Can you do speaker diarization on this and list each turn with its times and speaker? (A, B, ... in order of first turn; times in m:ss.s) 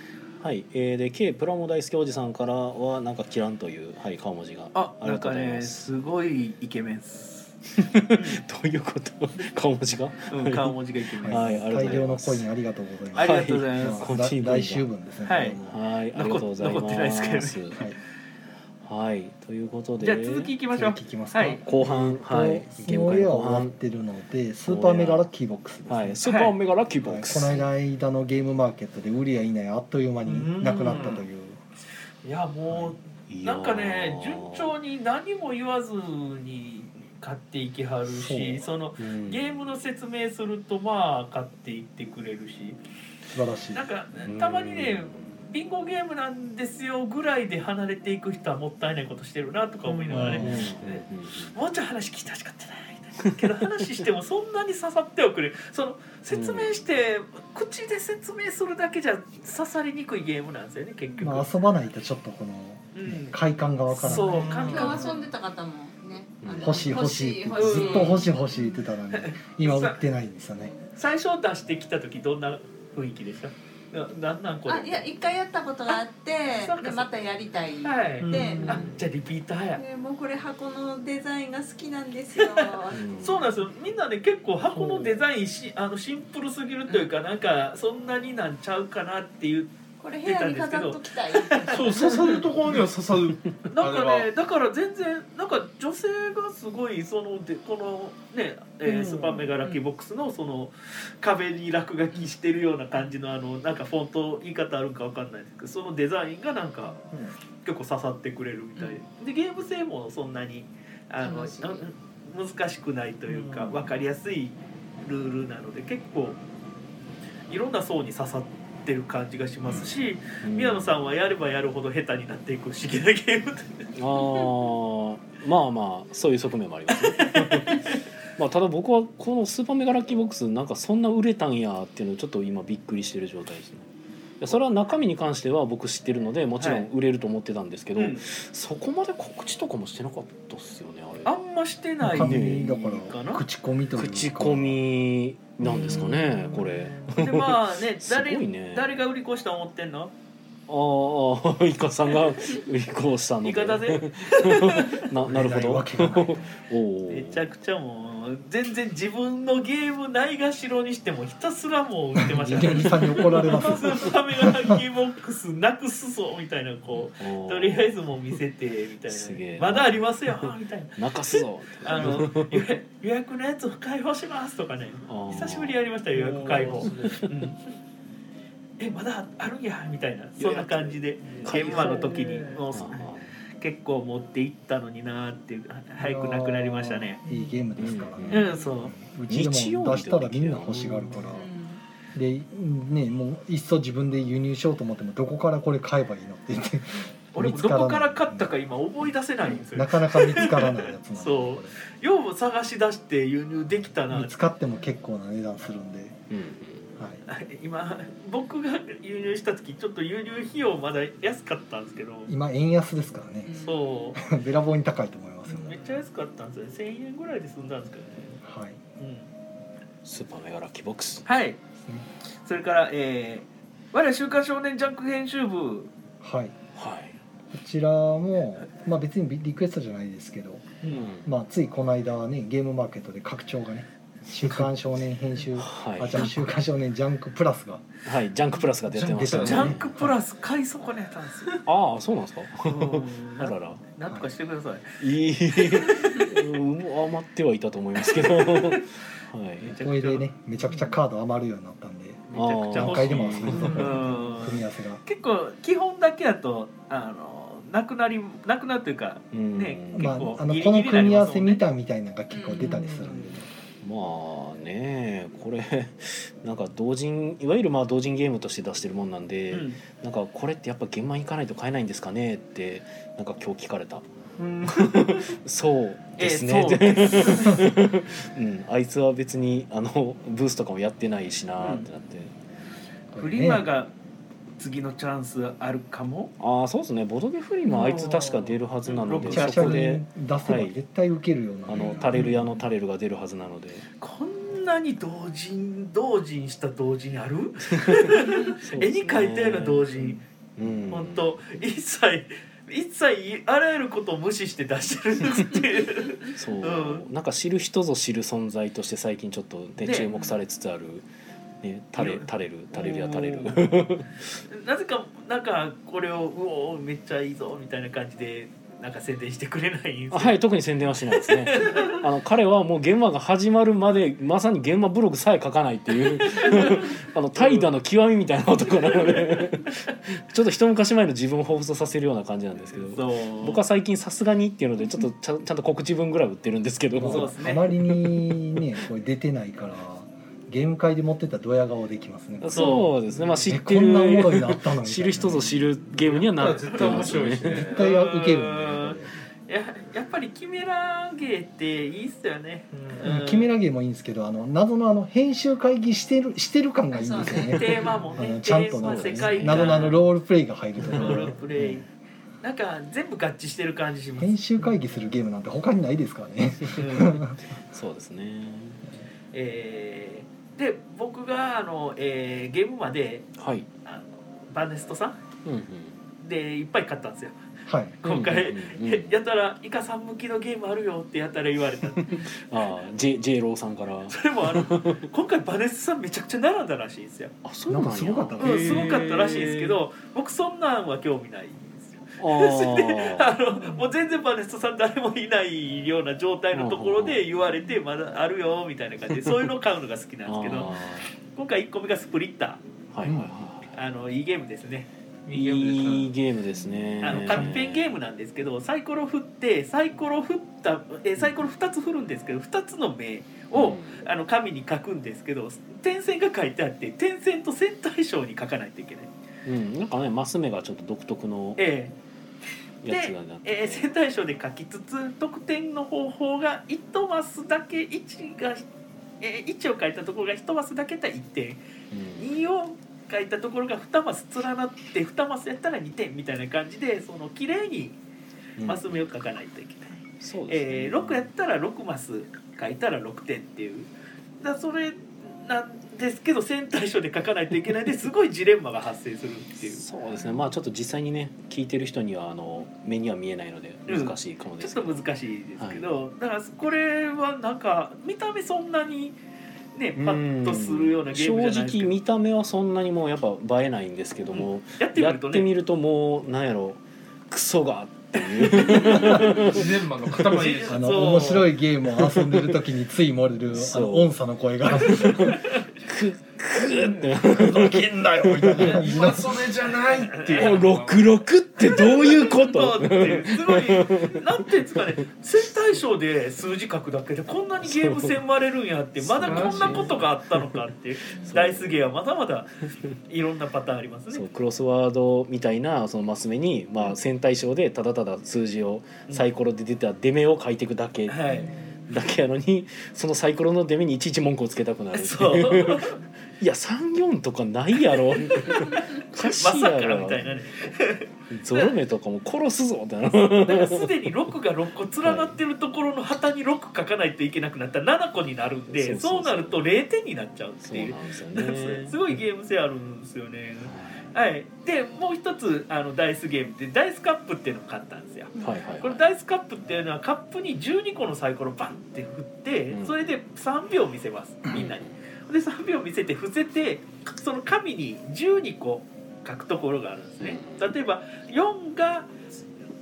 0:00.4-0:05.9 A
0:04.7-0:07.6 B
0:07.7-0:10.8 A
0:08.1-0:08.4 B
0:10.3-0:12.0 B
0:11.2-0:15.8 C
0:11.3-0:12.4 A
0:13.1-0:14.1 B
0:13.2-0:14.9 A
0:15.3-0:15.6 B
0:15.6-0:17.8 A
0:16.1-0:17.8 B
0:18.8-0:20.5 A
0:20.0-0:21.6 B
0:20.7-0:26.2 C
0:21.6-0:23.7 A
0:24.6-0:25.3 A
0:25.9-0:27.6 A
0:26.2-0:26.6 B
0:27.0-0:31.6 C
0:30.3-0:31.2 B
0:30.8-0:31.2 A
0:32.2-0:42.8 B
0:32.7-0:32.9 C
0:33.3-0:34.7 A
0:38.1-0:38.7 C
0:39.0-0:39.7 A
0:43.3-0:43.8 C
0:43.7-1:01.5 B
0:44.2-0:45.3 A
0:49.9-0:50.4 D
0:50.1-0:50.8 C
0:50.3-0:51.6 A
0:56.3-0:56.8 A
1:01.2-1:04.9 C
1:02.9-1:03.4 B
1:03.9-1:05.2 B
1:04.1-1:05.1 D
1:04.5-1:08.8 E
1:06.4-1:06.9 A
1:06.6-1:10.7 C
1:07.6-1:08.3 B
1:09.1-1:10.0 B
1:11.0-1:15.0 B
1:14.7-1:19.0 E
1:16.5-1:17.1 B
1:17.8-1:19.8 B
1:18.2-1:18.8 D
1:19.8-1:23.0 E
1:22.4-1:29.7 B
1:22.9-1:23.4 A
1:30.0-1:32.4 E
1:30.2-1:32.3 B
1:31.7-1:34.3 D
1:33.7-1:47.0 B
1:39.1-1:39.7 E
1:47.6-1:56.4 B
1:51.2-1:51.8 E
1:53.3-1:53.8 D
1:57.5-2:03.9 B
2:00.4-2:01.0 A
2:03.9-2:13.9 A
2:06.9-2:08.0 B
2:14.4-2:21.3 A
2:16.6-2:16.9 B
2:18.0-2:18.2 B
2:21.2-2:23.4 B
2:22.0-2:24.8 C
2:22.1-2:22.7 A
2:24.0-2:29.0 A
2:25.6-2:30.1 B
2:30.7-2:37.5 A
2:33.4-2:35.0 B
2:35.2-2:36.5 C
2:37.1-2:57.6 B
2:42.2-2:44.8 C
2:47.2-2:47.9 A
2:49.1-2:52.6 A
2:55.1-2:55.9 A
2:56.1-2:57.3 D
2:57.0-2:57.3 A
2:58.8-3:07.2 B
3:00.4-3:02.6 D
3:01.3-3:02.0 A
3:02.7-3:03.3 A
3:06.0-3:11.5 C
3:07.8-3:08.5 A
3:08.3-3:08.9 B
3:09.3-3:11.4 A
3:11.3-3:11.8 E
3:12.1-3:18.5 C
3:17.3-3:24.4 B
3:19.6-3:21.7 C
3:24.1-3:26.2 C
3:26.3-3:26.9 A
3:27.3-3:32.3 B
3:32.3-3:33.5 C
3:33.4-3:34.2 E
3:33.6-3:34.2 B
3:34.1-3:35.8 C
3:35.5-3:38.4 B
3:38.4-3:38.8 C
3:39.0-3:39.3 B
3:40.0-3:41.3 A
3:41.3-3:41.6 B
3:42.4-3:45.9 B
3:46.2-3:46.6 C
3:46.8-3:47.2 A
3:47.5-3:57.8 C
3:50.9-3:51.3 A
3:54.4-3:54.7 A
3:55.6-3:56.5 A
3:58.0-3:59.9 A
3:58.9-3:59.7 D
3:59.0-4:00.1 C
3:59.4-4:01.6 B
4:01.6-4:03.8 A
4:02.6-4:05.0 B
4:05.0-4:09.7 A
4:05.5-4:06.3 B
4:08.1-4:08.8 B
4:09.6-4:10.3 B
4:09.7-4:15.0 C
4:12.3-4:21.6 B
4:12.3-4:14.1 A
4:19.3-4:20.3 A
4:19.9-4:23.5 C
4:22.3-4:23.0 E
4:23.0-4:23.3 B
4:23.8-4:34.1 A
4:29.5-4:29.8 B
4:34.4-4:35.3 B
4:34.6-4:42.3 A
4:36.2-4:37.7 B
4:41.6-4:41.9 B
4:43.1-4:43.6 C
4:43.2-4:43.9 B
4:44.6-4:46.3 B
4:46.4-4:50.8 A
4:47.6-4:49.9 B
4:49.2-4:52.1 C
4:51.7-4:53.9 A
4:54.0-5:00.2 B
4:57.7-5:01.4 A
5:00.9-5:07.0 B
5:06.3-5:11.1 A
5:09.8-5:10.4 B
5:11.6-5:14.2 A
5:12.0-5:20.4 B
5:20.1-5:38.3 A
5:21.2-5:22.0 B
5:26.2-5:27.7 B
5:29.1-5:29.4 B
5:32.9-5:33.6 B
5:37.0-5:42.8 C
5:37.0-5:37.7 B
5:42.4-5:47.7 A
5:42.5-5:42.9 B
5:43.4-5:45.6 C
5:46.0-5:47.9 D
5:46.6-5:53.5 B
5:47.6-5:49.1 C
5:52.7-5:53.0 D
5:53.0-6:01.8 C
5:56.9-5:57.9 E
5:57.4-6:00.0 B
5:59.2-5:59.8 A
6:00.8-6:01.8 B
6:02.4-6:04.4 B
6:04.2-6:07.4 C
6:06.8-6:07.2 B
6:07.5-6:08.8 A
6:09.3-6:15.2 B
6:13.4-6:13.6 A
6:15.4-6:16.0 A
6:16.2-6:17.4 B
6:17.7-6:18.0 C
6:18.0-6:22.2 B
6:18.0-6:19.2 A
6:22.0-6:25.1 A
6:24.1-6:27.3 B
6:27.4-6:29.8 A
6:27.7-6:28.9 C
6:28.4-6:42.6 B
6:32.2-6:33.3 A
6:36.5-6:37.2 A
6:40.3-6:41.1 A
6:42.9-6:43.7 A
6:43.0-6:43.5 C
6:43.7-6:44.9 B
6:45.3-6:46.1 D
6:45.3-6:48.0 A
6:47.0-6:59.1 B
6:51.2-6:51.5 A
6:53.5-6:54.0 A
6:59.4-7:01.6 A
7:01.6-7:01.9 B
7:02.8-7:03.9 A
7:02.9-7:08.6 B
7:09.2-7:11.6 B
7:11.9-7:12.4 A
7:12.2-7:18.0 B
7:18.6-7:19.0 A
7:18.6-7:23.9 B
7:20.2-7:21.3 A
7:24.4-7:29.8 B
7:29.6-7:35.0 A
7:33.9-7:39.2 B
7:35.6-7:35.9 A
7:39.8-7:42.0 B
7:40.0-7:49.6 A
7:44.3-7:45.5 B
7:48.3-7:49.1 B
7:48.9-7:49.2 C
7:49.0-7:51.4 D
7:50.3-7:51.5 B
7:50.7-7:55.4 C
7:52.0-7:52.5 A
7:53.5-7:54.1 A
7:54.8-7:58.9 A
7:55.0-7:55.3 B
7:56.8-7:57.2 D
7:57.3-7:59.5 C
7:58.6-8:01.2 D
7:59.9-8:00.6 B
8:00.4-8:05.0 A
8:01.6-8:14.3 B
8:07.6-8:08.2 A
8:09.0-8:10.6 A
8:09.3-8:10.0 D
8:11.2-8:11.9 A
8:14.1-8:21.2 A
8:21.1-8:21.6 B
8:21.4-8:21.8 E
8:21.9-8:30.6 A
8:24.9-8:26.0 B
8:27.9-8:31.7 B
8:31.3-8:33.9 A
8:33.4-9:02.2 B
8:35.0-8:35.4 A
8:38.7-8:39.6 A
8:40.6-8:42.2 A
8:43.6-8:44.1 A
8:48.4-8:49.0 A
8:52.7-8:53.0 A
8:54.5-8:54.9 A
9:00.2-9:00.7 A